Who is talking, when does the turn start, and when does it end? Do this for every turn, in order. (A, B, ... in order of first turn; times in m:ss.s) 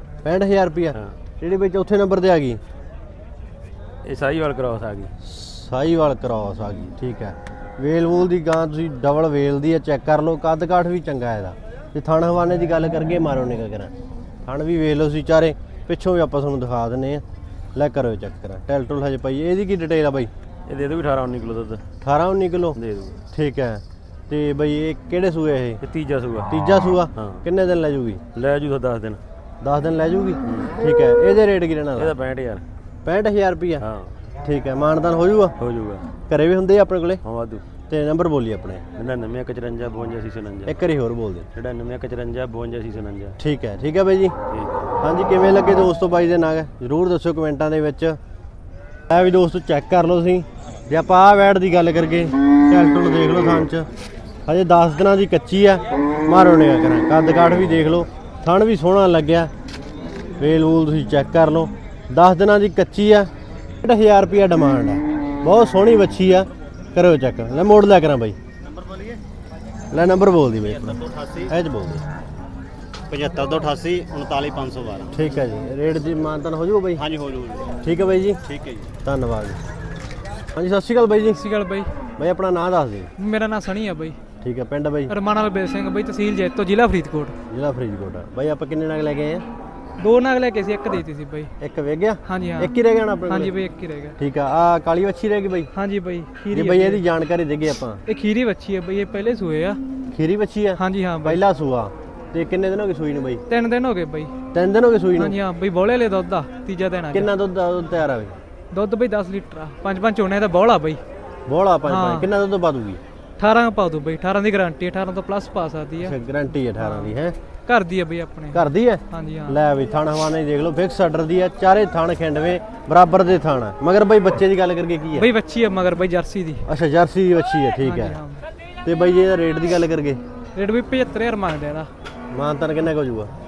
0:00.2-0:02.6 A
0:04.0-0:05.1 B
0:05.2-0:13.9 A
0:14.4-0:17.2 A
0:17.7-0:20.3 A
0:20.6-0:21.8 B
0:22.0-0:22.8 A
0:22.7-0:23.2 B
0:23.3-0:25.8 A
0:25.8-0:26.5 B
0:26.5-0:28.2 A
0:27.2-0:27.4 B
0:28.3-0:29.2 B
0:29.6-0:32.1 A
0:30.4-0:30.7 B
0:32.0-0:32.6 B
0:33.0-0:33.8 A
0:33.8-0:34.1 B
0:34.4-0:35.5 A
0:35.6-0:36.1 B
0:36.3-0:37.2 A
0:37.2-0:37.6 B
0:37.9-0:38.8 A
0:39.0-0:40.8 B
0:40.6-0:41.5 A
0:41.5-0:43.4 B
0:43.4-0:44.4 A
0:44.5-0:44.9 B
0:45.0-0:48.2 A
0:49.1-0:53.9 A
0:54.5-0:59.5 A
1:00.4-1:03.3 A
1:03.8-1:08.4 A
1:08.8-1:09.0 C
1:09.9-1:12.0 A
1:11.0-1:11.4 C
1:13.1-1:15.0 C
1:13.6-1:14.9 B
1:15.1-1:17.0 A
1:17.1-1:17.6 C
1:17.8-1:18.4 A
1:19.0-1:19.6 A
1:20.5-1:21.4 A
1:21.4-1:21.9 C
1:22.2-1:23.1 A
1:23.2-1:24.2 C
1:24.4-1:25.1 A
1:25.1-1:27.4 C
1:27.5-1:29.4 A
1:30.0-1:31.5 C
1:31.6-1:33.5 A
1:32.2-1:32.7 C
1:33.3-1:34.2 C
1:34.2-1:35.7 A
1:35.7-1:37.0 C
1:36.5-1:38.0 A
1:38.0-1:39.8 C
1:40.1-1:43.4 A
1:40.8-1:41.4 C
1:43.5-1:44.3 C
1:44.5-1:45.4 A
1:45.2-1:47.3 C
1:47.1-1:48.4 A
1:48.7-1:51.0 C
1:51.5-1:53.0 A
1:51.9-1:52.3 C
1:53.4-1:56.1 C
1:56.0-1:57.4 A
1:56.8-1:57.1 C
1:57.6-1:59.6 C
1:58.5-2:05.3 A
2:05.2-2:06.7 C
2:06.7-2:08.2 A
2:07.8-2:08.4 C
2:08.8-2:10.2 A
2:10.5-2:11.9 C
2:12.3-2:13.3 A